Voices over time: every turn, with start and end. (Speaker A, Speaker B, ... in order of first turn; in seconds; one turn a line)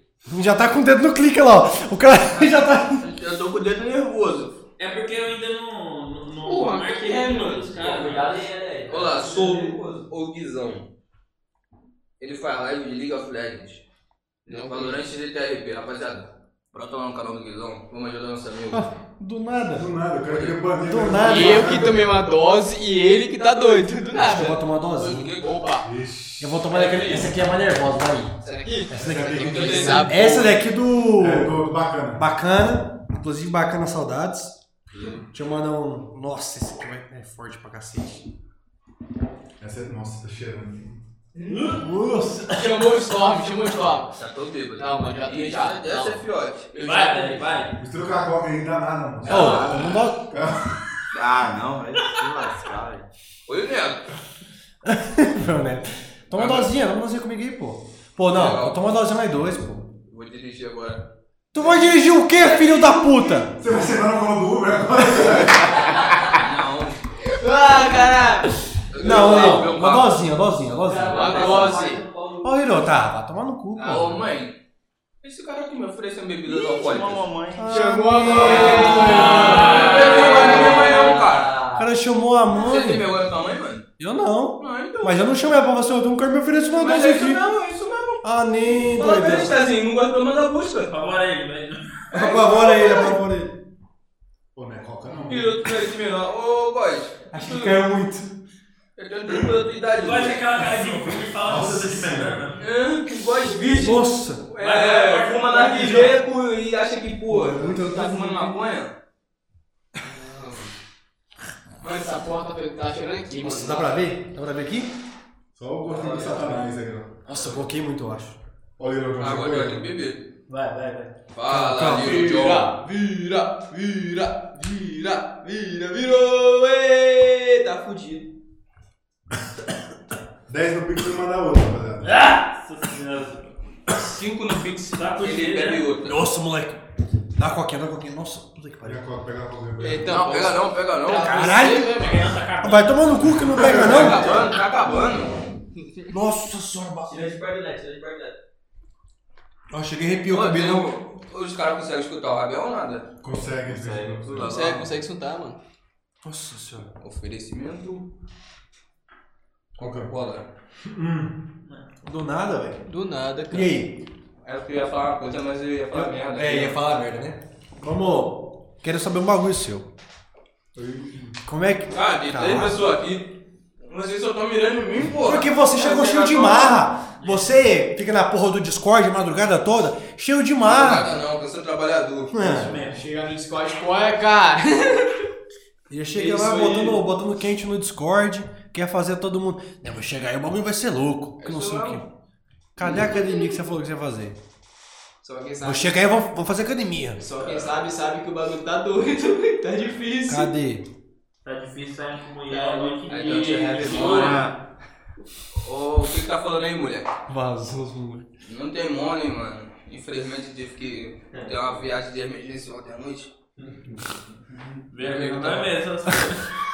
Speaker A: 0.3-3.1
Speaker B: 3.0-4.6
Speaker C: 4.8-8.3
Speaker D: 6.5-7.9
Speaker E: 7.8-10.0
Speaker B: 8.9-10.9
Speaker B: 12.2-13.8
Speaker D: 14.5-15.0
Speaker B: 14.6-18.9
Speaker A: 18.7-19.9
Speaker F: 19.8-22.1
Speaker B: 20.3-20.6
Speaker A: 20.8-21.9
Speaker D: 21.2-25.9
Speaker A: 24.1-25.4
Speaker B: 25.0-25.5
Speaker F: 25.8-26.7
Speaker A: 26.4-28.4
Speaker D: 26.7-27.4
Speaker D: 28.4-30.6
Speaker A: 28.9-31.6
Speaker F: 28.9-30.0
Speaker B: 29.4-30.2
Speaker F: 31.2-32.2
Speaker A: 32.1-34.6
Speaker A: 35.3-38.2
Speaker F: 39.6-41.0
Speaker D: 41.4-41.7
Speaker C: 41.5-41.9
Speaker A: 41.6-42.8
Speaker D: 42.5-44.1
Speaker B: 44.1-46.7
Speaker D: 44.8-46.2
Speaker D: 46.7-47.6
Speaker C: 46.8-47.8
Speaker F: 47.8-50.8
Speaker A: 49.3-50.3
Speaker D: 49.3-49.6
Speaker G: 49.4-49.9
Speaker G: 51.1-53.1
Speaker B: 53.5-54.1
Speaker A: 54.8-59.9
Speaker B: 56.3-56.7
Speaker B: 58.3-58.9
Speaker B: 60.1-61.0
Speaker A: 61.5-63.6
Speaker D: 62.4-63.1
Speaker F: 63.5-66.0
Speaker B: 66.3-67.0
Speaker D: 67.3-68.6
Speaker B: 68.9-70.2
Speaker A: 69.0-71.8
Speaker E: 70.8-72.8
Speaker D: 71.1-72.0
Speaker B: 71.2-71.8
Speaker A: 72.4-74.2
Speaker D: 73.8-74.1
Speaker B: 73.8-74.6
Speaker B: 75.2-77.3
Speaker G: 76.5-79.0
Speaker A: 77.5-81.0
Speaker D: 77.7-80.7
Speaker B: 78.3-81.6
Speaker E: 78.5-81.9
Speaker C: 79.0-80.5
Speaker A: 81.7-83.1
Speaker B: 82.5-83.9
Speaker A: 84.0-87.5
Speaker B: 84.6-85.3
Speaker B: 86.7-90.9
Speaker A: 88.2-89.6
Speaker C: 90.9-91.9
Speaker A: 92.1-93.6
Speaker B: 92.2-93.0
Speaker F: 94.5-95.6
Speaker B: 95.3-97.8
Speaker A: 97.3-98.3
Speaker B: 99.0-100.5
Speaker C: 99.9-102.6
Speaker F: 101.3-102.5
Speaker B: 102.6-108.9
Speaker A: 103.8-104.5
Speaker C: 104.6-106.2
Speaker A: 107.3-108.6
Speaker D: 110.0-110.7
Speaker D: 111.8-114.0
Speaker A: 113.4-115.0
Speaker F: 115.5-117.2
Speaker B: 115.9-116.4
Speaker A: 117.3-118.4
Speaker F: 118.8-119.9
Speaker B: 119.2-120.2
Speaker C: 120.5-121.1
Speaker B: 121.3-122.7
Speaker A: 121.5-122.4
Speaker D: 121.8-128.3
Speaker F: 130.5-132.2
Speaker C: 132.0-133.5
Speaker B: 133.9-136.2
Speaker C: 135.0-135.8
Speaker A: 136.1-139.0
Speaker F: 138.8-140.1
Speaker D: 139.8-142.3
Speaker B: 140.1-141.4
Speaker A: 141.1-142.0
Speaker C: 142.0-143.3
Speaker A: 142.6-144.4
Speaker F: 143.4-144.4
Speaker B: 143.6-145.4
Speaker A: 146.1-147.3
Speaker E: 147.1-148.4
Speaker A: 149.7-150.9
Speaker B: 150.3-153.1
Speaker F: 153.2-154.5
Speaker B: 154.0-154.9
Speaker D: 154.4-155.6
Speaker A: 156.2-156.9
Speaker B: 157.0-158.1
Speaker B: 159.8-160.5
Speaker F: 159.8-160.1
Speaker F: 160.8-161.3
Speaker A: 162.0-162.9
Speaker D: 162.9-163.7
Speaker A: 163.5-164.1
Speaker B: 164.4-166.8
Speaker A: 165.9-169.9
Speaker F: 170.8-171.4
Speaker A: 171.4-172.8
Speaker B: 171.9-173.3
Speaker B: 173.8-176.8
Speaker A: 175.2-181.1
Speaker C: 177.2-177.5
Speaker B: 180.6-182.3
Speaker A: 182.3-182.7
Speaker C: 182.4-183.0
Speaker D: 182.9-185.3
Speaker A: 185.9-192.1
Speaker D: 186.2-186.9
Speaker B: 191.4-192.0
Speaker A: 192.8-194.4
Speaker D: 192.8-193.5
Speaker D: 195.2-196.1
Speaker A: 195.6-197.2
Speaker D: 197.2-200.5
Speaker B: 197.4-197.8
Speaker A: 200.3-200.9
Speaker C: 201.4-204.4
Speaker D: 202.5-204.4
Speaker B: 203.1-204.5
Speaker G: 204.1-204.5
Speaker B: 205.6-207.1
Speaker A: 207.3-208.3
Speaker B: 208.4-213.3
Speaker C: 214.9-216.5
Speaker A: 215.0-216.3